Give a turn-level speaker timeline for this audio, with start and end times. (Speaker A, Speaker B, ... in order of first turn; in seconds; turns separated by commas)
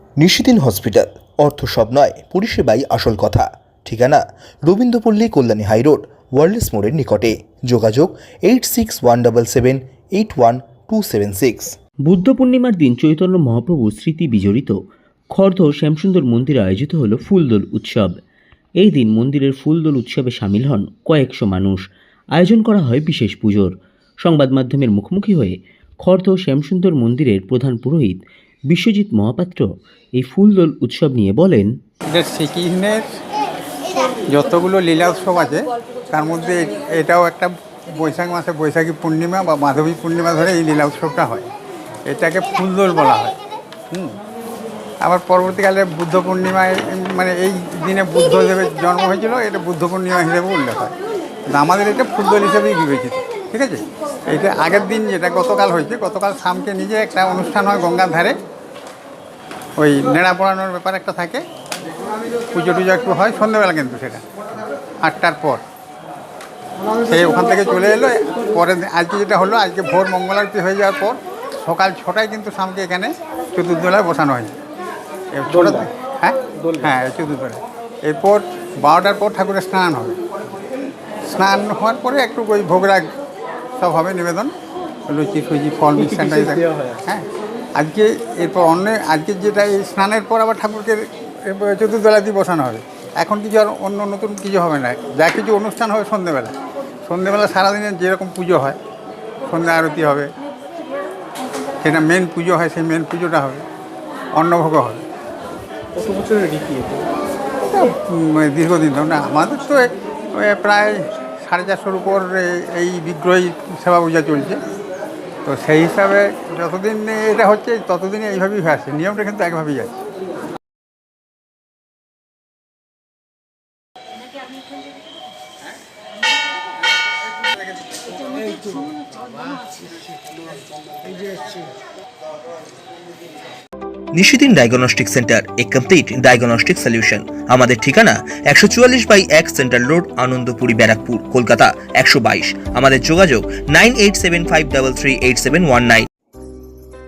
Speaker A: 0.2-11.8, Speaker B: 12.0-14.7, Speaker B: 15.3-18.1, Speaker B: 18.8-21.8, Speaker B: 22.3-31.7, Speaker C: 32.1-33.1, Speaker C: 34.3-41.5, Speaker C: 42.1-43.4, Speaker C: 43.9-44.1, Speaker C: 45.0-50.9, Speaker C: 51.5-58.4, Speaker C: 59.8-61.4, Speaker C: 62.5-64.2, Speaker C: 65.0-65.6, Speaker C: 67.0-74.5, Speaker C: 75.3-80.2, Speaker D: 75.5-75.8, Speaker D: 76.5-76.9, Speaker C: 81.3-83.1, Speaker C: 83.8-84.5, Speaker C: 85.1-87.2, Speaker D: 86.0-87.0, Speaker C: 87.8-98.8, Speaker C: 99.5-100.3, Speaker C: 101.8-103.6, Speaker C: 104.3-105.0, Speaker D: 105.9-107.1, Speaker C: 107.7-114.6, Speaker C: 115.5-119.9, Speaker A: 134.1-146.1